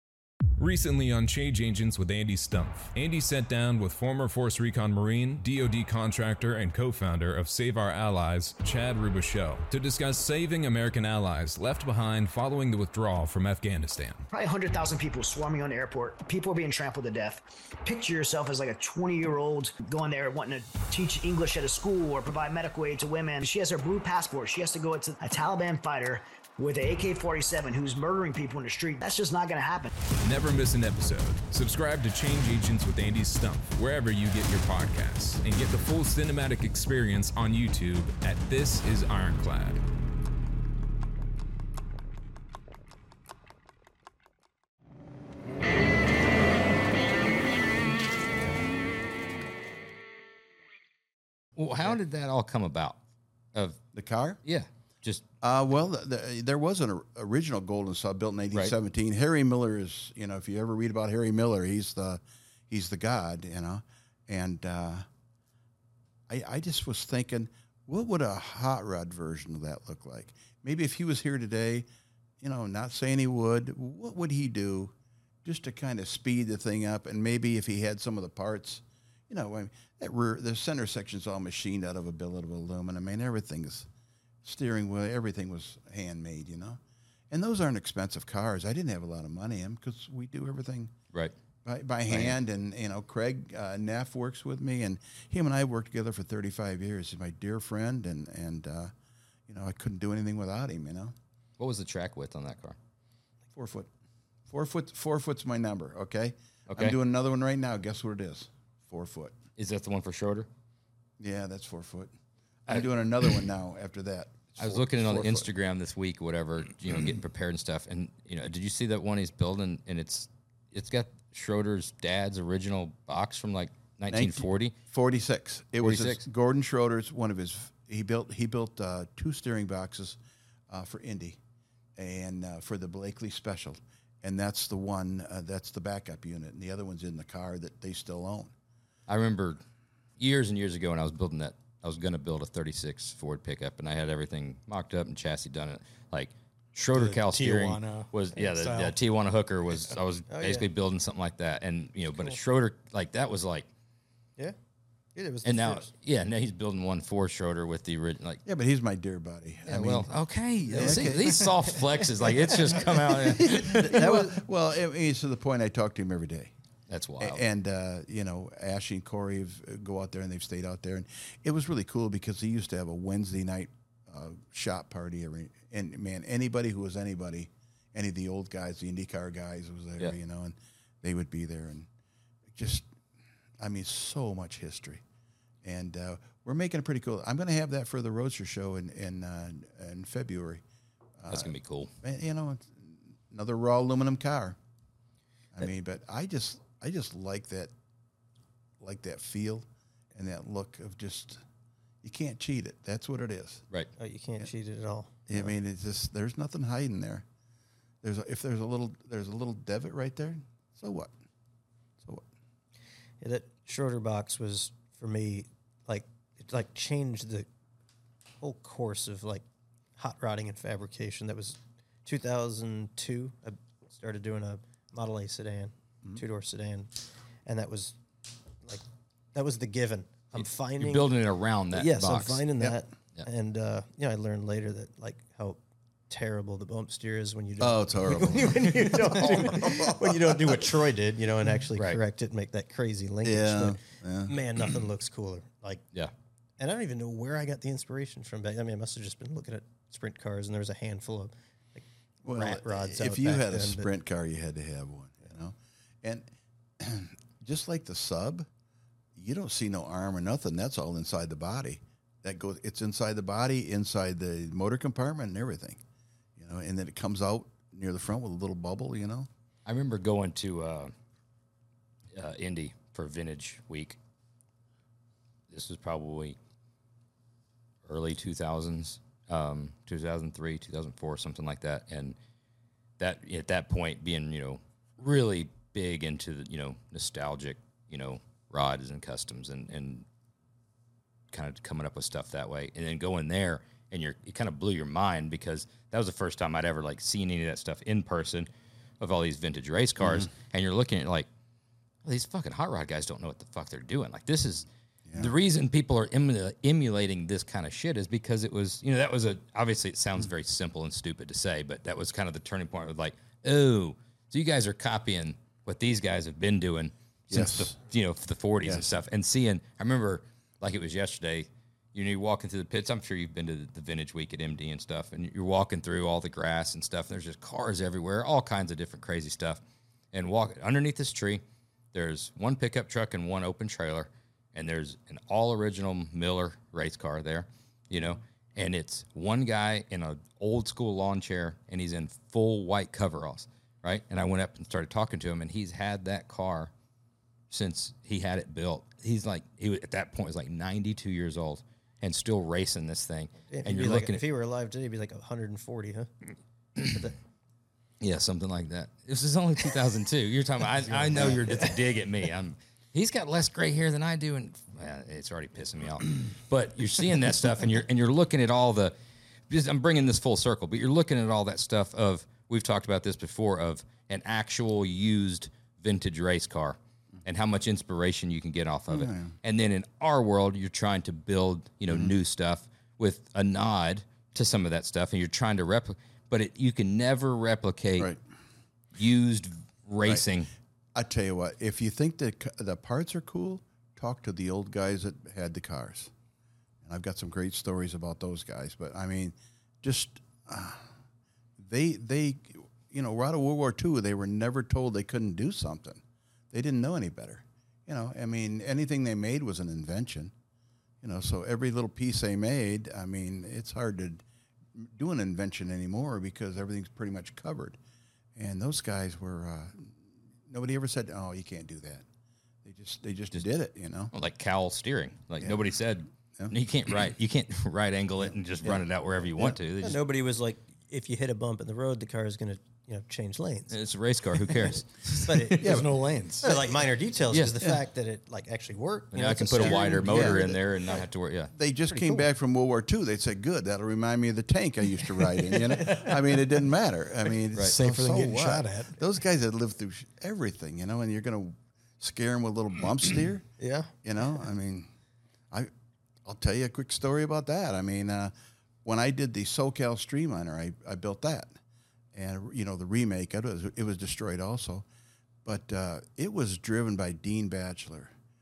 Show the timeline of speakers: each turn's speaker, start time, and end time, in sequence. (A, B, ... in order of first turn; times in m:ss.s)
0:00.6-0:14.2 A
0:14.3-0:29.9 B
0:30.2-0:39.8 A
0:51.6-0:53.0 C
0:53.5-0:53.8 C
0:53.9-0:54.4 D
0:54.4-0:55.2 C
0:55.4-1:05.0 D
1:06.3-1:11.9 D
1:12.4-1:23.9 D
1:24.4-1:26.8 D
1:27.3-1:30.9 D
1:31.6-1:38.9 D
1:32.1-1:32.3 C
1:39.5-1:41.1 D
1:41.6-1:42.8 C
1:43.5-1:43.9 D
1:44.5-1:49.3 D
1:46.7-1:47.0 C
1:49.6-1:50.5 C
1:51.2-1:52.1 D
1:52.7-1:55.5 D
1:54.6-2:04.7 C
2:04.1-2:10.2 D
2:05.8-2:06.2 C
2:10.7-2:11.4 D
2:12.0-2:18.5 D
2:19.1-2:19.6 C
2:20.2-2:33.7 C
2:26.9-2:29.0 E
2:30.3-2:30.6 F
2:35.1-2:35.9 F
2:35.4-2:38.4 C
2:38.4-2:40.1 D
2:39.6-2:44.1 C
2:40.7-2:41.7 D
2:40.7-2:42.8 F
2:42.8-2:46.5 D
2:43.6-2:44.3 F
2:46.9-2:47.4 C
2:47.2-3:01.9 D
3:02.5-3:02.9 D
3:03.6-3:05.0 D
3:05.6-3:10.6 D
3:11.2-3:14.6 D
3:11.3-3:11.9 C
3:15.5-3:17.7 D
3:18.8-3:21.4 D
3:22.0-3:23.6 D
3:24.0-3:25.5 F
3:25.3-3:27.2 D
3:28.0-3:31.1 D
3:33.2-3:37.5 F
3:38.4-3:39.4 F
3:40.0-3:46.9 F
3:47.4-3:48.0 F
3:48.6-3:51.1 F
3:50.4-3:52.4 C
3:51.7-4:05.8 F
3:57.6-4:00.7 D
4:01.8-4:02.0 C
4:03.2-4:04.4 D
4:06.6-4:13.9 F
4:12.2-4:16.3 D
4:16.8-4:18.5 D
4:19.2-4:25.8 D
4:26.4-4:29.3 D
4:29.6-4:30.9 C
4:32.1-4:34.0 C
4:35.5-4:36.4 C
4:37.8-4:42.2 C
4:43.0-4:50.0 C
4:51.3-5:01.3 C
5:00.0-5:00.3 D
5:02.0-5:29.6 C
5:17.3-5:17.7 D
5:18.6-5:19.0 D
5:30.1-5:31.4 C
5:31.9-5:46.7 C
5:47.5-5:54.2 C
5:53.5-5:56.1 F
5:56.8-5:57.2 F
5:58.0-6:08.9 C
6:00.8-6:01.8 F
6:09.5-6:28.1 C
6:18.9-6:19.3 D
6:21.9-6:22.1 D
6:28.9-6:30.5 C
6:30.9-6:36.1 D
6:36.8-6:40.9 D
6:41.6-6:50.3 D
6:51.0-6:54.2 D
6:54.7-6:57.8 D
6:58.4-7:02.0 D
7:02.6-7:04.1 D
7:04.1-7:10.0 C
7:08.2-7:08.8 D
7:09.8-7:13.7 F
7:13.7-7:15.8 C
7:14.3-7:15.6 F
7:15.5-7:16.5 E
7:15.6-7:15.9 D
7:16.4-7:21.0 F
7:17.3-7:17.6 C
7:19.1-7:21.5 C
7:19.6-7:20.4 D
7:21.5-7:33.5 D
7:21.9-7:22.2 F
7:25.7-7:26.3 F
7:27.6-7:29.0 E
7:33.6-7:33.9 F
7:34.0-7:34.9 D
7:36.2-7:38.3 D
7:38.8-7:41.6 D
7:42.1-7:44.8 D
7:45.4-7:48.1 D